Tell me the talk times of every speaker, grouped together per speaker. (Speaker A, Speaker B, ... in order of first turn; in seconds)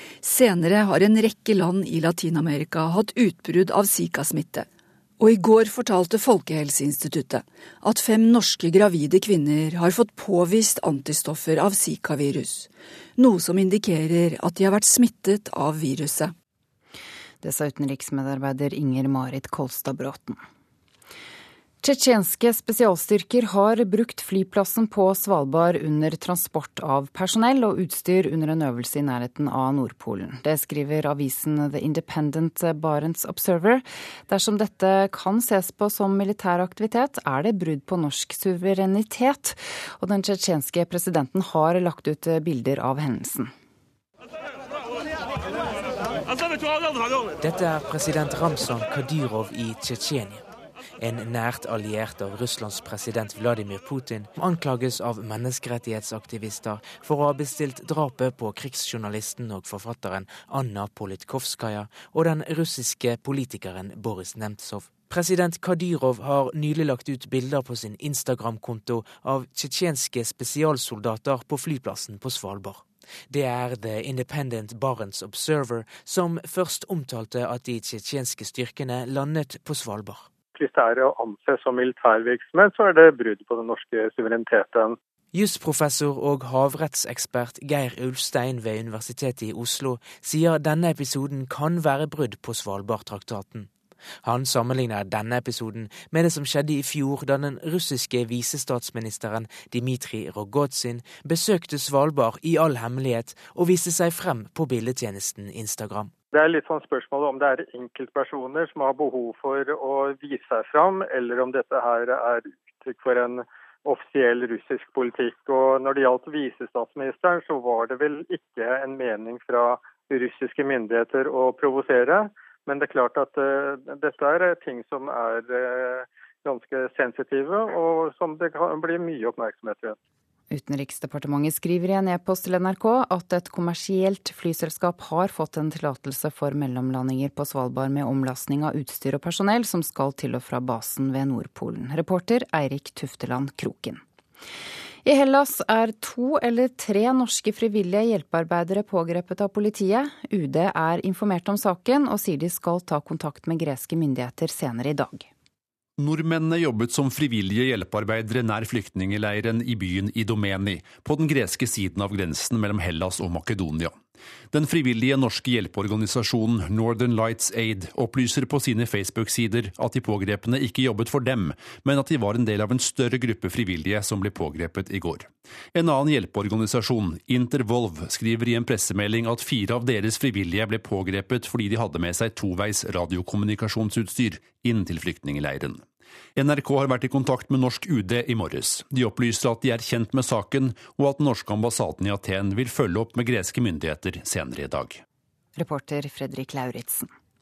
Speaker A: 0.2-4.7, 5.2-16.3
Speaker B: 17.4-20.4, 21.8-43.5, 130.5-144.0, 145.1-155.3, 195.6-197.1
Speaker C: 47.4-50.5, 51.0-80.3, 85.3-93.7, 94.2-106.1
Speaker D: 80.6-85.0, 106.3-130.0
Speaker E: 156.0-164.0, 164.5-185.8, 186.4-195.0